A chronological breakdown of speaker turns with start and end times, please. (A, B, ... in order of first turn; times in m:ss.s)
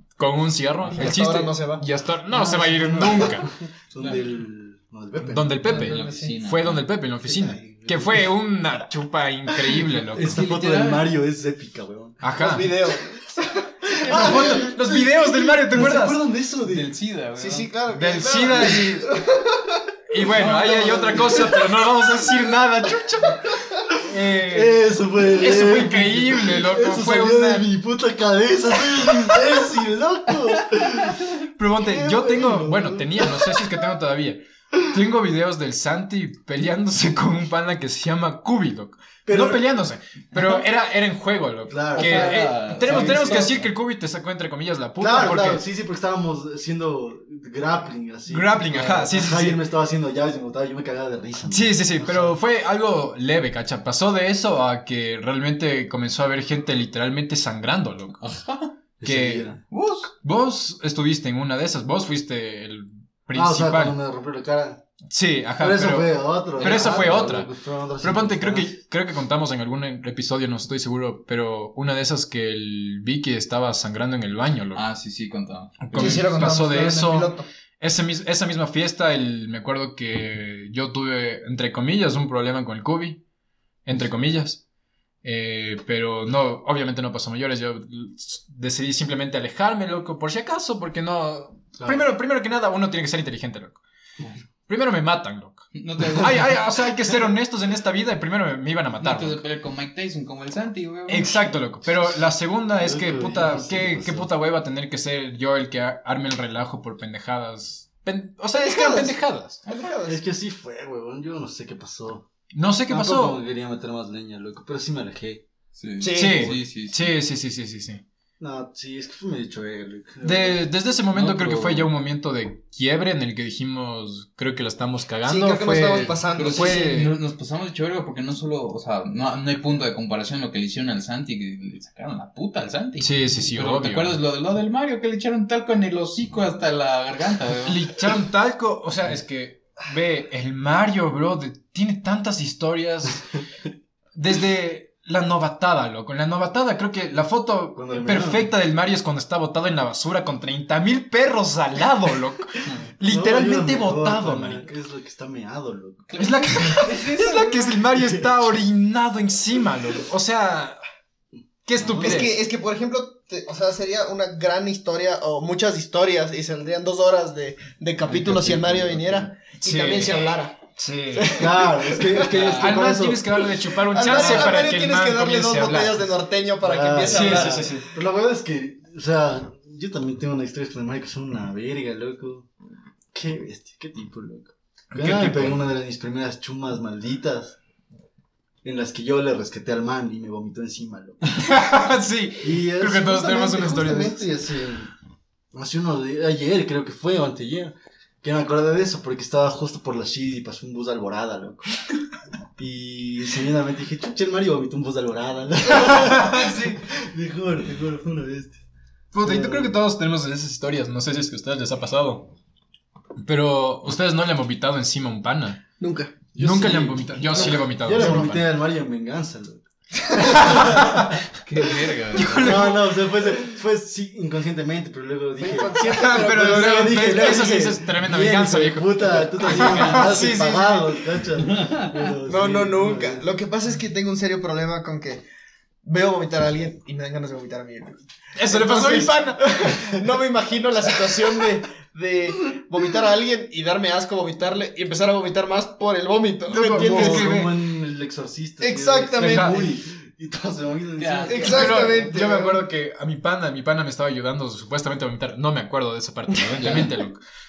0:00.2-0:03.5 A
0:00.9-0:01.8 B
0:02.3-0:05.7 C
0:04.0-0:04.2 D
0:05.2-0:10.4 A
0:05.6-0:06.9 D
0:05.6-0:06.4 B
0:07.5-0:08.2 C
0:10.1-0:11.1 D
0:10.1-0:12.2 C
0:12.2-0:12.7 A
0:12.4-0:14.6 B
0:13.8-0:16.9 C
0:14.0-0:16.2 A
0:16.6-0:17.7 D
0:17.4-0:19.8 B
0:17.9-0:19.1 A
0:20.1-0:27.7 A
0:20.2-0:21.5 D
0:20.4-0:21.2 C
0:24.4-0:33.6 C
0:31.6-0:45.6 A
0:39.2-0:39.6 C
0:41.7-0:43.6 C
0:42.0-0:43.7 D
0:45.0-0:52.3 C
0:48.3-0:49.6 A
0:51.5-0:58.2 A
0:58.2-0:58.7 D
0:59.0-0:59.6 C
0:59.0-0:59.5 A
0:59.7-1:00.1 D
1:00.0-1:03.9 A
1:03.3-1:04.8 C
1:05.1-1:07.5 A
1:05.6-1:08.8 C
1:06.6-1:07.4 D
1:08.0-1:14.8 A
1:14.7-1:16.4 D
1:15.8-1:23.2 A
1:16.0-1:17.5 B
1:23.8-1:24.6 A
1:25.2-1:33.8 A
1:31.8-1:32.1 C
1:34.7-1:39.4 A
1:35.8-1:36.6 D
1:39.0-1:41.3 D
1:41.1-1:49.6 A
1:42.7-1:44.3 C
1:48.6-1:50.2 B
1:50.1-1:52.3 C
1:52.5-1:53.4 A
1:52.9-1:55.4 C
1:55.8-1:57.1 D
1:56.0-1:56.5 B
1:56.2-1:58.0 A
1:58.4-2:00.7 C
2:00.2-2:07.2 A
2:01.1-2:01.9 D
2:05.3-2:06.9 B
2:06.4-2:18.1 D
2:13.0-2:14.2 A
2:17.7-2:23.4 A
2:24.2-2:34.7 A
2:27.8-2:28.5 C
2:32.6-2:32.9 D
2:33.0-2:36.1 C
2:36.1-2:37.6 D
2:36.2-2:40.8 A
2:36.9-2:37.5 B
2:37.9-2:38.5 C
2:41.7-2:42.4 A
2:41.8-2:42.2 C
2:41.9-2:50.6 B
2:48.1-2:49.3 C
2:49.6-2:50.2 A
2:50.8-2:51.5 A
2:51.1-2:52.2 B
2:51.3-2:53.4 C
2:52.2-2:56.1 A
2:52.3-2:53.0 D
2:53.9-2:57.7 B
2:56.6-3:02.5 C
2:57.0-2:57.9 A
3:03.1-3:07.6 C
3:04.9-3:05.6 A
3:08.6-3:11.2 C
3:11.4-3:14.2 A
3:12.4-3:14.9 C
3:15.5-3:21.7 C
3:22.6-3:28.6 C
3:25.8-3:26.8 A
3:29.1-3:32.3 A
3:29.2-3:29.7 C
3:33.2-3:35.6 A
3:35.8-3:36.1 B
3:36.4-3:38.5 A
3:36.4-3:53.3 C
3:40.0-3:40.4 B
3:40.4-3:41.2 A
3:41.4-3:42.6 D
3:42.2-3:42.8 A
3:45.4-3:47.5 B
3:45.8-3:51.0 A
3:49.4-3:50.4 D
3:51.4-3:51.9 D
3:52.3-3:55.2 B
3:55.8-4:07.3 B
3:58.4-3:59.6 A
4:06.5-4:07.6 A
4:06.5-4:12.0 C
4:08.6-4:09.7 B
4:09.2-4:09.6 A
4:11.0-4:11.6 D
4:11.3-4:12.6 B
4:11.5-4:17.2 A
4:16.6-4:17.0 D